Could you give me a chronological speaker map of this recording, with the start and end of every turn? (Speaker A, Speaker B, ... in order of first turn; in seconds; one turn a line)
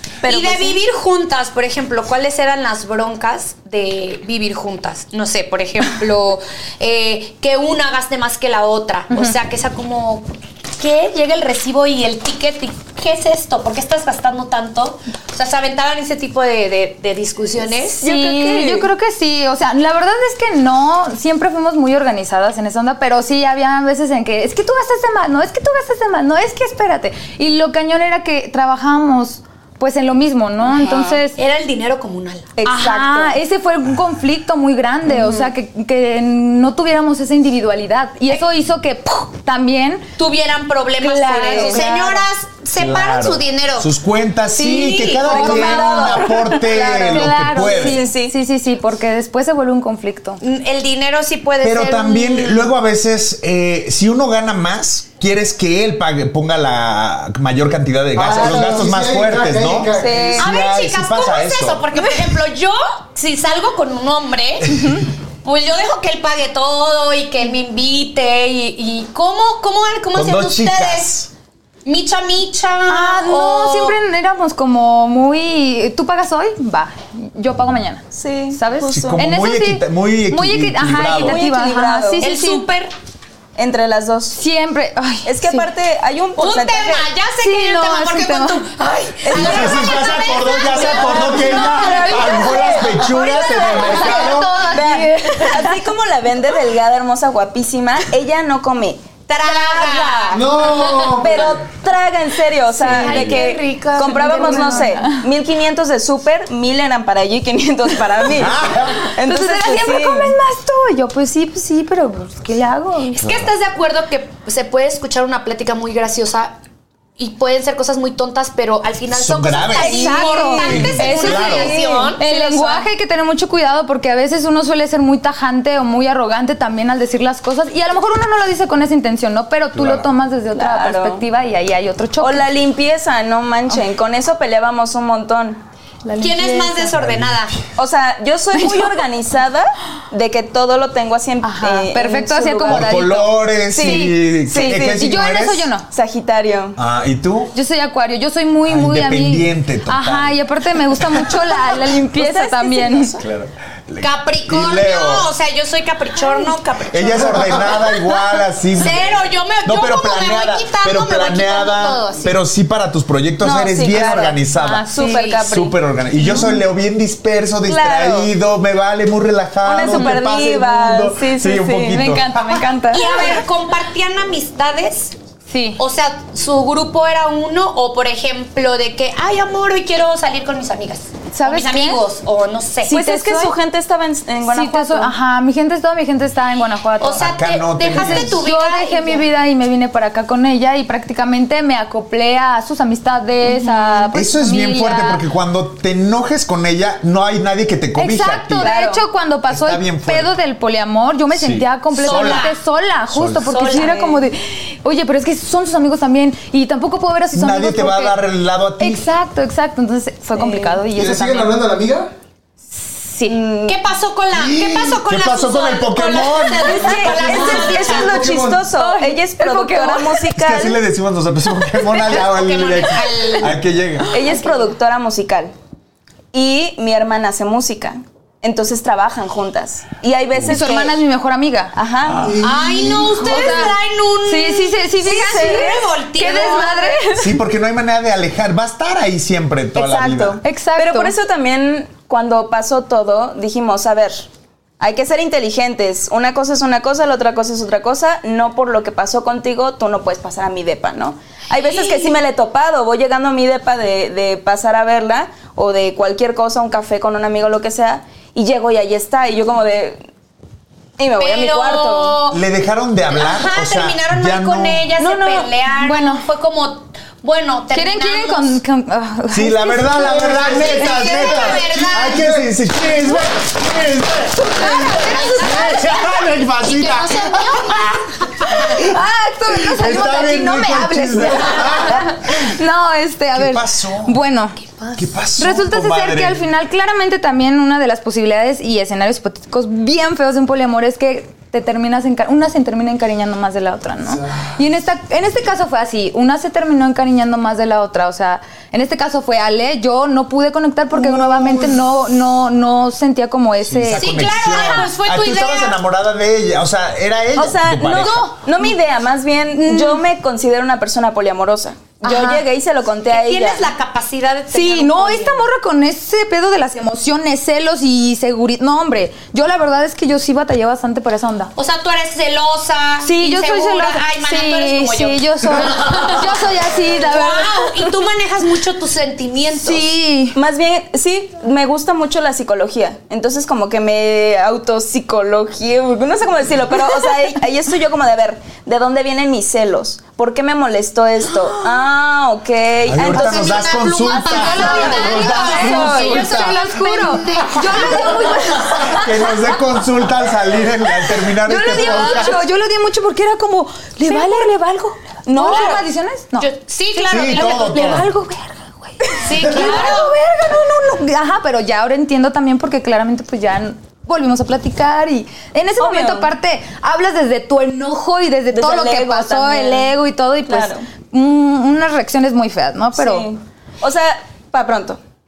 Speaker A: 0.2-0.8
Speaker B: 0.2-18.0
Speaker A: 18.0-18.9
Speaker C: 18.0-31.4
Speaker B: 30.7-32.5
Speaker A: 32.6-33.4
Speaker C: 32.6-40.1
Speaker A: 35.1-35.5
Speaker B: 40.2-43.9
Speaker C: 41.0-42.2
Speaker A: 41.1-41.9
Speaker D: 42.8-48.0
Speaker B: 44.6-45.7
Speaker C: 44.7-46.4
Speaker A: 45.2-48.3
Speaker C: 47.1-50.4
Speaker B: 50.4-52.7
Speaker D: 51.6-61.9
Speaker E: 58.1-60.4
Speaker A: 60.0-60.5
Speaker B: 60.4-71.2
Speaker D: 70.1-71.3
Speaker B: 71.8-74.0
Speaker C: 72.9-82.7
Speaker A: 78.1-79.2
Speaker D: 78.9-81.4
Speaker A: 81.0-82.3
Speaker B: 82.2-82.9
Speaker A: 83.5-84.4
Speaker C: 84.3-85.7
Speaker A: 85.2-87.1
Speaker B: 86.3-94.3
Speaker C: 87.4-88.7
Speaker A: 89.2-90.2
Speaker D: 89.3-94.6
Speaker A: 90.7-92.9
Speaker C: 91.2-95.8
Speaker A: 94.7-100.5
Speaker B: 99.3-101.5
Speaker E: 100.3-101.5
Speaker A: 101.2-110.3
Speaker B: 102.8-105.0
Speaker D: 103.0-103.3
Speaker C: 104.5-105.2
Speaker D: 108.3-109.0
Speaker C: 109.0-113.2
Speaker B: 113.1-116.6
Speaker D: 113.2-113.5
Speaker B: 117.2-122.2
Speaker D: 119.1-121.8
Speaker C: 119.8-132.5
Speaker A: 119.8-122.9
Speaker D: 129.7-130.1
Speaker A: 130.5-131.2
Speaker A: 132.2-135.6
Speaker C: 136.0-137.0
Speaker B: 136.2-137.5
Speaker D: 136.9-137.5
Speaker A: 137.8-145.0
Speaker C: 138.6-138.9
Speaker C: 141.4-143.0
Speaker D: 142.7-145.7
Speaker C: 143.8-144.2
Speaker C: 144.8-145.8
Speaker A: 145.9-146.8
Speaker D: 146.8-147.5
Speaker C: 147.5-153.1
Speaker D: 148.7-150.4
Speaker A: 151.7-153.2
Speaker D: 153.2-155.3
Speaker B: 154.0-158.0
Speaker D: 156.9-172.6
Speaker B: 158.7-162.3
Speaker A: 163.4-164.4
Speaker C: 164.5-165.4
Speaker A: 164.9-165.8
Speaker A: 167.7-168.3
Speaker A: 169.6-172.1
Speaker C: 171.9-173.4
Speaker B: 172.9-175.1
Speaker A: 173.0-173.4
Speaker C: 175.5-175.8
Speaker B: 175.8-182.9
Speaker C: 181.3-182.0
Speaker C: 182.9-183.5
Speaker A: 182.9-185.1
Speaker C: 184.5-187.3
Speaker B: 187.0-189.3
Speaker D: 187.2-188.4
Speaker C: 187.9-195.2
Speaker A: 193.6-194.0
Speaker D: 194.1-198.7
Speaker C: 197.9-208.2
Speaker A: 198.6-199.1
Speaker D: 199.5-200.3
Speaker D: 201.3-202.5
Speaker B: 201.9-202.6
Speaker D: 203.1-203.5
Speaker B: 203.4-204.2
Speaker A: 203.8-204.0
Speaker D: 207.3-209.1
Speaker C: 208.8-211.5
Speaker A: 210.3-210.8
Speaker E: 210.9-212.1
Speaker C: 212.8-213.4
Speaker A: 213.2-213.8
Speaker B: 213.7-218.2
Speaker D: 214.3-217.1
Speaker A: 216.7-220.8
Speaker C: 216.8-217.8
Speaker E: 217.1-218.6
Speaker C: 218.6-220.2
Speaker D: 220.3-224.1
Speaker B: 222.0-223.6
Speaker A: 224.1-225.5
Speaker A: 226.3-231.0
Speaker C: 230.5-231.7
Speaker A: 231.7-232.3
Speaker D: 232.1-232.6
Speaker E: 232.2-233.6
Speaker B: 232.4-237.0
Speaker C: 233.2-237.3
Speaker A: 235.1-235.8
Speaker D: 237.2-240.4
Speaker A: 239.8-244.3
Speaker C: 240.4-241.1
Speaker A: 244.8-260.0
Speaker B: 251.7-252.1
Speaker A: 261.0-262.2
Speaker B: 261.2-262.4
Speaker D: 262.3-264.9
Speaker B: 263.1-268.5
Speaker A: 265.0-265.5
Speaker C: 265.8-266.2
Speaker C: 267.7-270.6
Speaker D: 269.3-277.9
Speaker E: 269.9-272.5
Speaker B: 270.3-272.2
Speaker C: 274.3-275.8
Speaker B: 275.0-278.7
Speaker D: 278.6-279.0
Speaker C: 278.6-284.6
Speaker D: 279.5-282.4
Speaker D: 283.3-284.2
Speaker D: 284.9-286.4
Speaker C: 285.4-304.6
Speaker D: 303.6-308.3
Speaker B: 303.9-305.8
Speaker A: 307.4-313.7
Speaker C: 307.9-308.3
Speaker C: 309.6-310.0
Speaker C: 312.0-312.4
Speaker B: 313.1-315.4
Speaker C: 314.5-321.5
Speaker B: 321.6-329.9
Speaker C: 323.0-327.8
Speaker C: 329.6-330.4
Speaker A: 330.3-346.2
Speaker D: 342.9-346.6
Speaker B: 343.0-348.4
Speaker C: 344.3-349.5
Speaker D: 348.8-352.4
Speaker C: 351.4-373.3
Speaker B: 351.7-352.3
Speaker B: 354.1-354.4
Speaker A: 355.2-355.8
Speaker B: 355.4-355.8
Speaker B: 356.4-358.1
Speaker D: 357.1-358.1
Speaker B: 359.2-360.1
Speaker A: 365.8-366.3
Speaker A: 368.5-369.9
Speaker A: 370.5-370.9
Speaker A: 372.9-375.0